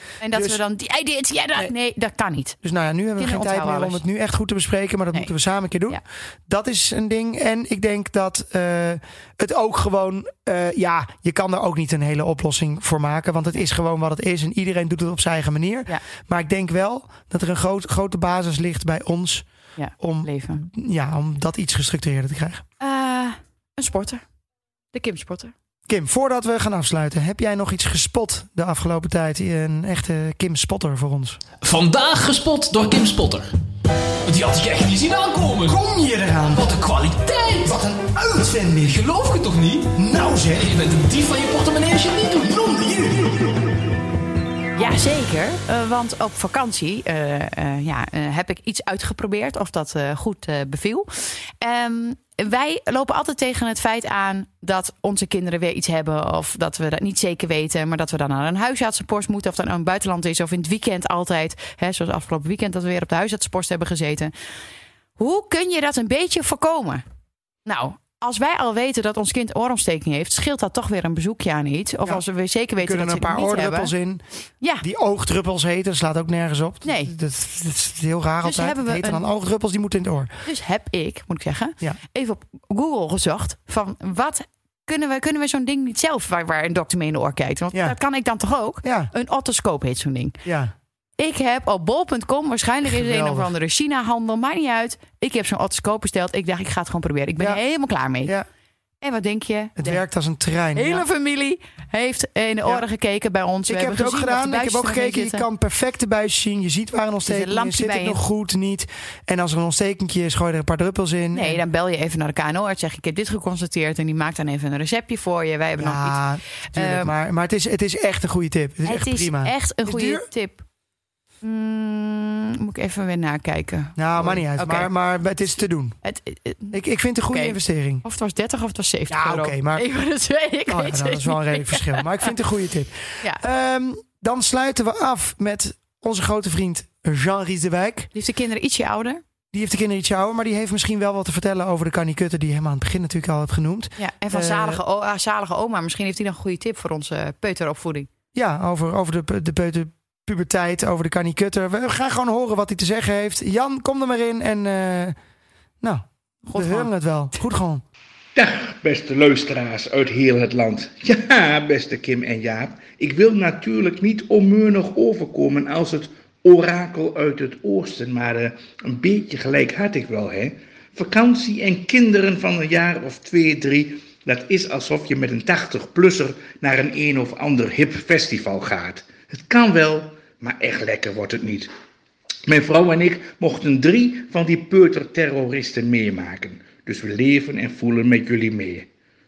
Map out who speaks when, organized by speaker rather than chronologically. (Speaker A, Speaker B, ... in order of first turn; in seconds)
Speaker A: 0.2-2.6, 3.2-4.0, 19.8-20.6, 22.8-24.2, 24.9-25.5, 44.8-64.3, 65.2-67.0, 67.6-73.9, 74.6-74.8, 76.8-77.1, 78.4-79.2, 80.4-90.4, 91.2-98.3, 99.0-100.0, 100.7-105.5, 107.2-108.2, 111.3-117.1, 118.8-120.6, 121.4-124.9, 126.0-126.8, 127.3-132.3, 138.1-139.2, 144.0-148.1, 156.5-156.9
Speaker B: 0.3-0.6, 2.6-22.6, 25.9-31.4, 35.6-36.7, 37.7-39.0, 39.9-40.8, 72.8-74.2, 74.8-80.3, 88.8-89.1, 90.4-90.7, 92.8-93.5, 99.8-101.0, 103.7-111.6, 115.8-120.3, 124.0-126.0, 126.7-128.0, 129.1-129.8, 130.7-138.1, 139.5-144.8, 148.3-155.1, 155.8-157.8
Speaker C: 31.6-33.5, 34.2-35.8, 36.5-40.0, 40.5-43.5
Speaker D: 158.3-181.7, 182.5-188.9